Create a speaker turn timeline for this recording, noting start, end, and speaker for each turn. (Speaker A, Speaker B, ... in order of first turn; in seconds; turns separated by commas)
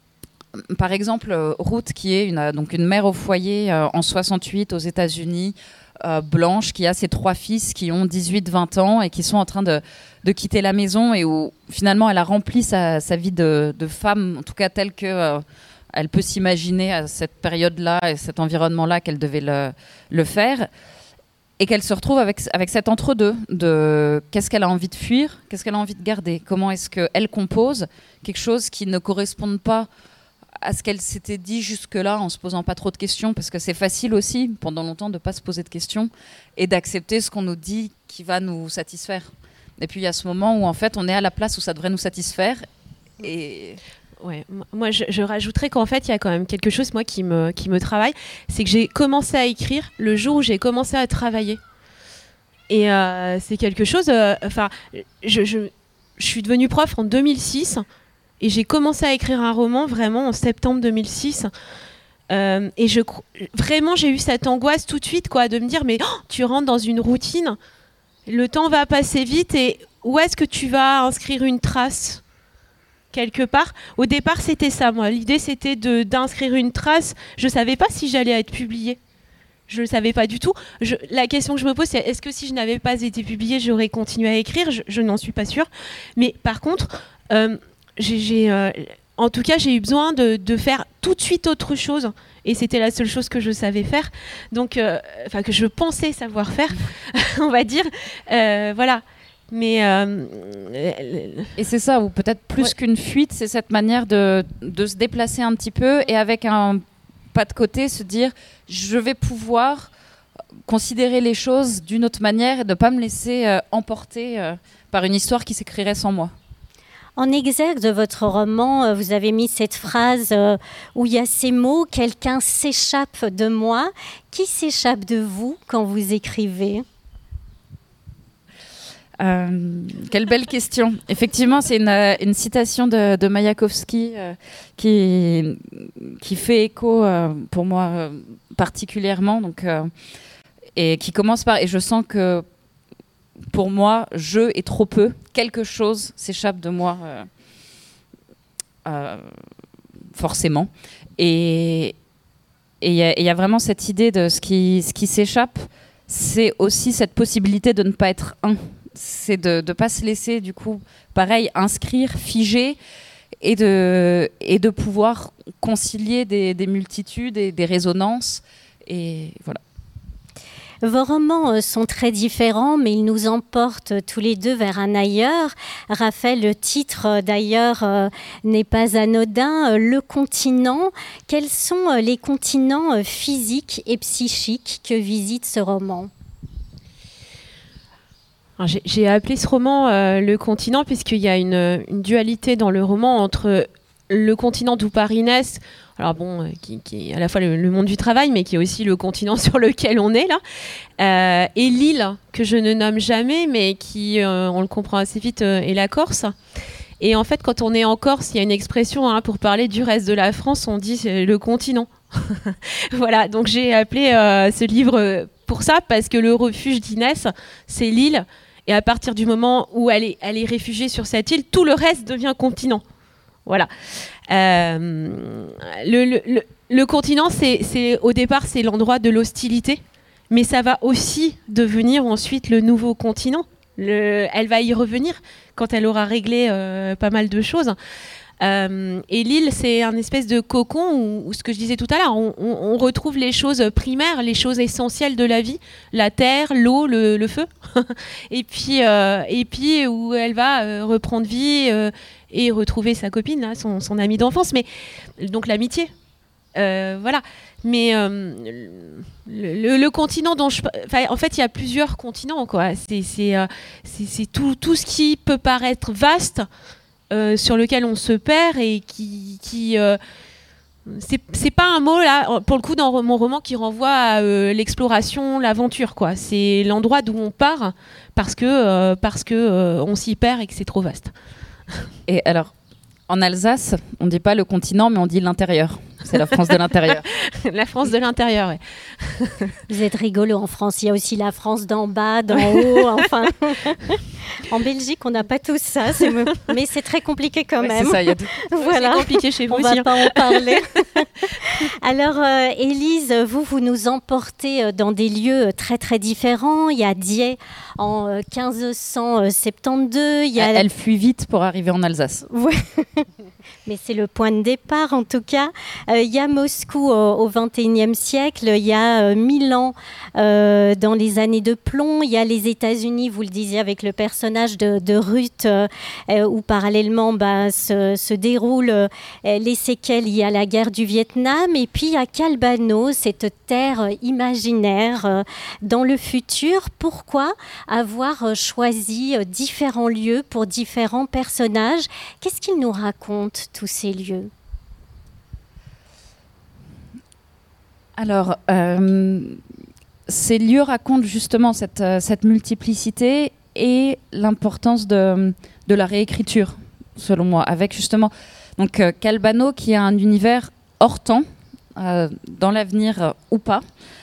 Speaker A: 0.7-20.7, Speaker A: 21.6-29.9, Speaker A: 30.6-42.7, Speaker A: 43.2-43.8, Speaker B: 44.2-51.6, Speaker B: 52.7-57.8, Speaker B: 58.4-61.5, Speaker B: 62.3-67.6, Speaker B: 68.3-72.2, Speaker B: 73.1-79.0, Speaker B: 79.7-101.5, Speaker A: 101.6-109.9, Speaker A: 110.7-116.3, Speaker C: 117.2-126.8, Speaker A: 129.2-139.9, Speaker A: 140.8-142.4, Speaker A: 143.5-147.3, Speaker A: 148.8-149.3, Speaker A: 150.1-151.9, Speaker A: 152.8-162.8, Speaker A: 163.4-169.6, Speaker C: 170.8-186.1, Speaker B: 188.6-200.4, Speaker B: 201.0-206.3, Speaker B: 207.0-222.8, Speaker B: 224.3-237.8, Speaker B: 238.4-254.7, Speaker B: 255.2-255.9, Speaker B: 256.6-266.5, Speaker B: 267.1-270.0, Speaker B: 270.9-281.1, Speaker A: 282.1-282.5, Speaker A: 283.1-287.1, Speaker B: 287.1-289.5, Speaker C: 289.7-310.6, Speaker A: 297.6-298.3, Speaker B: 298.6-300.6, Speaker A: 310.4-312.2, Speaker C: 312.3-313.1, Speaker C: 313.7-344.3, Speaker A: 348.0-349.4, Speaker A: 350.1-363.6